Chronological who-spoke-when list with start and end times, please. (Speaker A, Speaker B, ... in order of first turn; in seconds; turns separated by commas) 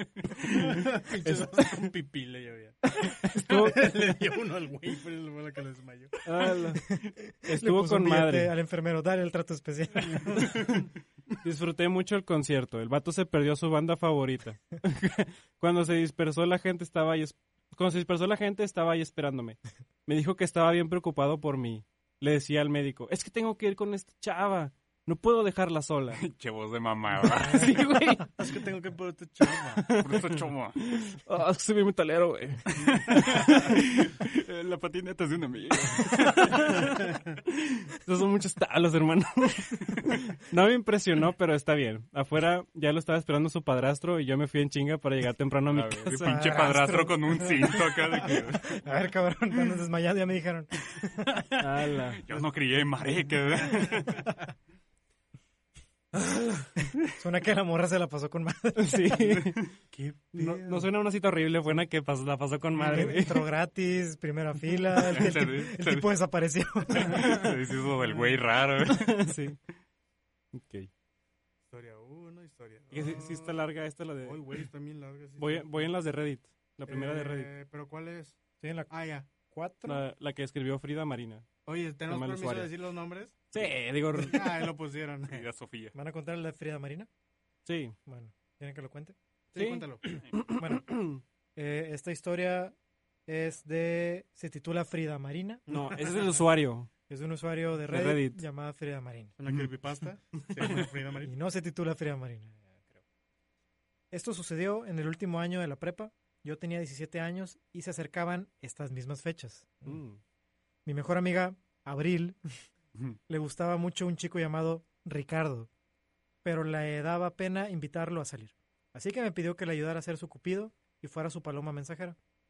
Speaker A: 0.5-6.3, Speaker B: 1.2-1.7, Speaker B: 3.2-4.0, Speaker B: 6.2-8.5, Speaker C: 6.9-10.5, Speaker A: 10.2-10.6, Speaker B: 11.4-26.2, Speaker D: 26.2-27.8, Speaker B: 27.2-28.3, Speaker A: 28.4-29.9, Speaker B: 29.8-33.5, Speaker D: 29.9-31.0, Speaker D: 32.8-36.9, Speaker B: 36.1-37.2, Speaker B: 38.0-46.5, Speaker D: 45.7-48.8, Speaker C: 46.1-51.2, Speaker D: 51.2-54.3, Speaker B: 51.6-52.2, Speaker A: 53.5-54.3, Speaker B: 56.1-56.7, Speaker C: 57.0-59.2, Speaker B: 58.8-59.6, Speaker A: 59.9-60.9, Speaker B: 60.4-63.5, Speaker D: 62.8-63.1, Speaker C: 62.9-67.5, Speaker D: 65.0-66.1, Speaker D: 66.9-69.4, Speaker B: 69.0-69.6, Speaker B: 70.5-70.9, Speaker A: 71.7-73.6, Speaker B: 72.9-74.4, Speaker A: 74.2-75.8, Speaker B: 75.4-77.5, Speaker A: 76.9-79.3, Speaker C: 78.6-80.0, Speaker B: 79.9-81.5, Speaker A: 81.7-83.5, Speaker B: 82.1-82.7, Speaker B: 83.5-84.6, Speaker A: 84.2-85.5, Speaker D: 85.3-86.0, Speaker C: 85.9-87.1, Speaker B: 87.7-88.0, Speaker C: 88.1-89.2, Speaker A: 89.5-90.2, Speaker B: 89.5-91.2, Speaker C: 90.5-90.9, Speaker C: 91.6-92.7, Speaker C: 93.3-95.7, Speaker A: 95.7-96.4, Speaker B: 95.7-96.9, Speaker C: 97.1-99.3, Speaker B: 97.9-98.4, Speaker A: 99.4-101.3, Speaker C: 101.2-102.9, Speaker C: 104.1-110.0, Speaker B: 109.9-110.2, Speaker C: 110.9-112.4, Speaker C: 113.3-115.7, Speaker C: 116.4-122.2